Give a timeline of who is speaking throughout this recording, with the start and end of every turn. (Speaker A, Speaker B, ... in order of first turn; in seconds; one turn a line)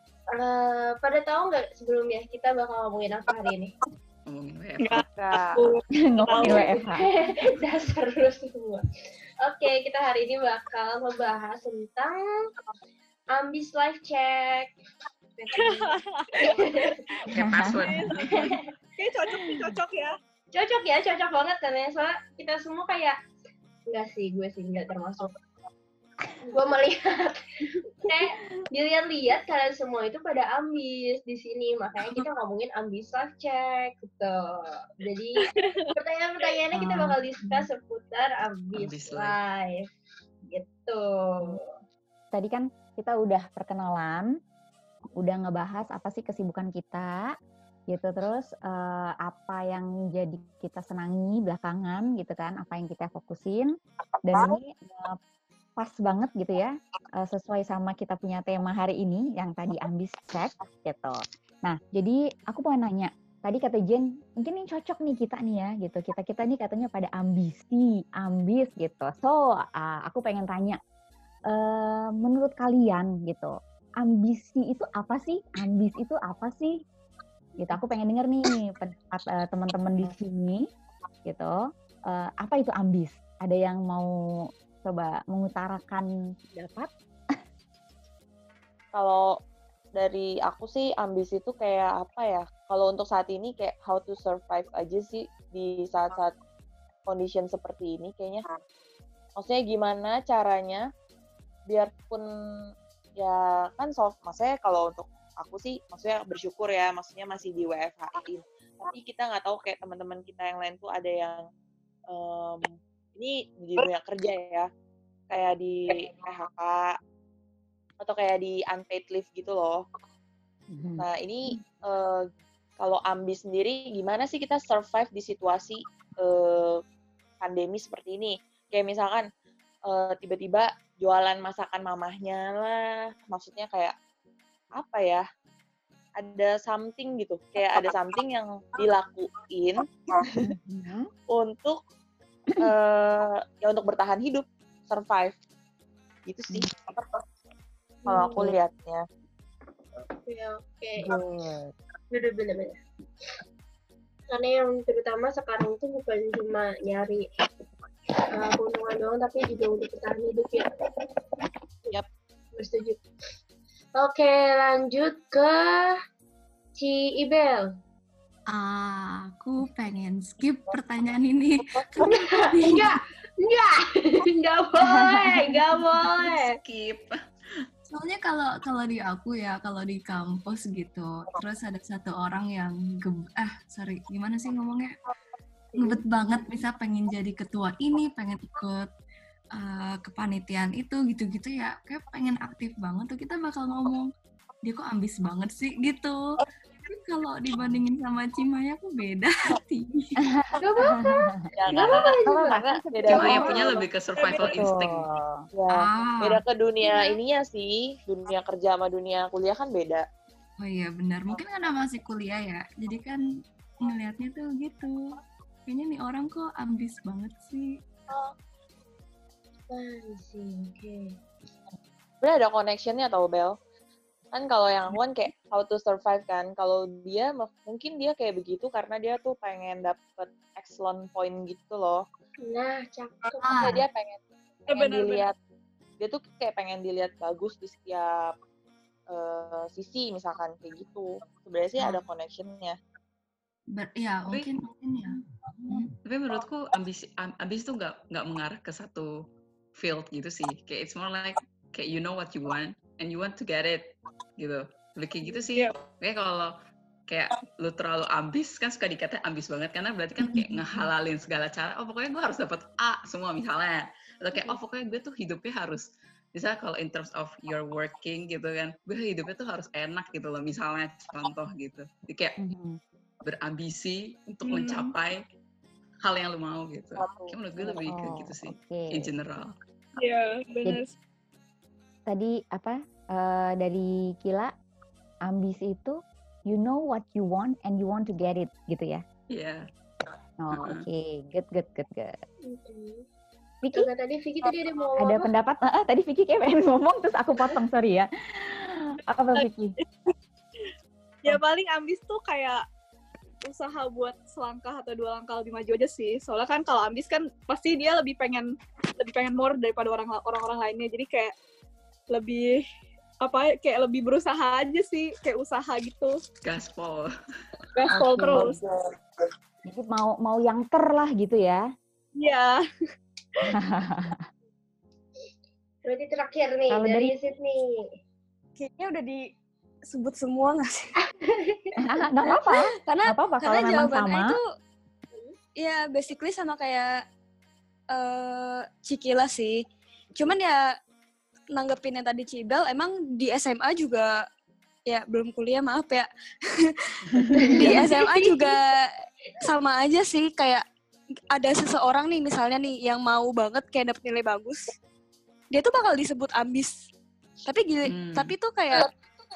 Speaker A: 0.3-3.7
Speaker B: 4.3-5.0
Speaker C: 4.8-6.8
Speaker D: 5.1-5.6
Speaker E: 6.0-7.0
Speaker A: 6.4-8.8
Speaker A: 9.4-12.2
Speaker A: 13.3-14.7
Speaker A: 15.4-17.0
Speaker C: 15.6-16.6
Speaker B: 17.3-18.5
Speaker E: 17.4-17.8
Speaker C: 17.6-20.2
Speaker A: 18.3-18.6
Speaker E: 19.3-19.7
Speaker A: 20.5-23.2
Speaker A: 23.9-25.4
Speaker A: 26.5-27.4
Speaker A: 28.0-39.9
Speaker C: 35.5-35.9
Speaker E: 36.7-37.2
Speaker B: 38.8-39.4
Speaker A: 40.5-41.6
Speaker E: 42.3-44.3
Speaker E: 45.2-47.3
Speaker E: 47.9-53.7
Speaker E: 54.2-55.2
Speaker E: 55.8-70.8
Speaker E: 71.5-76.8
Speaker E: 77.6-80.7
Speaker E: 81.3-81.5
Speaker E: 82.1-84.1
Speaker E: 84.8-87.4
Speaker D: 88.9-89.3
Speaker D: 90.0-96.3
Speaker D: 97.1-98.5
Speaker D: 99.4-100.9
Speaker D: 101.7-102.3
Speaker D: 103.2-111.5
Speaker D: 112.1-114.7
Speaker D: 115.3-117.0
Speaker D: 118.0-119.9
Speaker E: 120.7-121.0
Speaker D: 121.0-122.3
Speaker D: 122.8-126.8
Speaker D: 127.4-129.3
Speaker D: 129.9-133.9
Speaker D: 134.8-135.3
Speaker D: 136.2-140.4
Speaker E: 140.4-141.1
Speaker D: 141.3-141.8
Speaker D: 142.6-145.4
Speaker D: 146.3-147.1
Speaker A: 148.0-148.5
Speaker D: 148.1-149.0
Speaker A: 150.0-151.2
Speaker E: 151.1-151.7
Speaker A: 152.1-152.8
Speaker A: 154.3-157.3
Speaker A: 158.3-160.9
Speaker A: 162.6-163.0
Speaker A: 164.0-165.9
Speaker A: 166.8-167.7
Speaker F: 168.5-173.0
Speaker A: 172.0-176.6
Speaker B: 176.5-177.2
Speaker F: 177.9-185.0
Speaker A: 185.7-186.0
Speaker F: 185.8-188.9
Speaker F: 189.6-194.1
Speaker F: 194.7-196.4
Speaker F: 196.9-200.2
Speaker E: 200.2-201.3
Speaker A: 200.6-202.6
Speaker D: 201.5-203.9
Speaker E: 202.3-203.6
Speaker B: 203.1-205.1
Speaker E: 204.4-205.4
Speaker D: 205.5-210.1
Speaker F: 205.7-206.4
Speaker F: 210.6-213.2
Speaker F: 213.8-217.8
Speaker A: 219.7-221.2
Speaker D: 222.2-223.6
Speaker D: 224.3-232.1
Speaker A: 232.4-233.8
Speaker F: 233.4-233.8
Speaker D: 233.6-235.3
Speaker C: 234.7-235.3
Speaker D: 236.0-238.4
Speaker D: 239.1-242.8
Speaker F: 243.8-245.9
Speaker B: 246.1-249.1
Speaker B: 249.8-256.5
Speaker C: 255.3-255.7
Speaker B: 257.1-272.4
Speaker E: 272.4-272.8
Speaker B: 273.2-275.2
Speaker C: 274.4-274.9
Speaker B: 276.0-279.5
Speaker D: 277.0-277.9
Speaker E: 277.9-279.1
Speaker C: 280.0-280.9
Speaker E: 282.1-284.5
Speaker E: 285.3-289.0
Speaker B: 289.3-289.6
Speaker E: 290.4-292.2
Speaker B: 290.5-290.8
Speaker A: 292.4-293.1
Speaker A: 293.8-295.3
Speaker E: 295.0-299.7
Speaker C: 301.2-302.6
Speaker C: 303.5-311.3
Speaker C: 312.1-312.6
Speaker C: 313.2-316.2
Speaker B: 316.4-317.1
Speaker C: 317.8-318.6
Speaker E: 318.0-318.6
Speaker E: 319.6-321.6
Speaker C: 322.2-322.6
Speaker E: 323.5-324.2
Speaker A: 325.8-327.9
Speaker E: 326.7-327.1
Speaker G: 328.6-329.2
Speaker G: 329.9-330.9
Speaker A: 331.2-331.8
Speaker E: 331.8-334.4
Speaker G: 332.8-334.5
Speaker G: 335.6-336.9
Speaker G: 337.9-339.6
Speaker G: 340.1-340.6
Speaker G: 341.6-344.2
Speaker G: 344.9-346.1
Speaker G: 346.6-346.9
Speaker A: 347.4-348.5
Speaker G: 347.5-350.6
Speaker G: 351.3-354.8
Speaker G: 355.5-356.8
Speaker G: 357.4-358.9
Speaker B: 357.9-358.3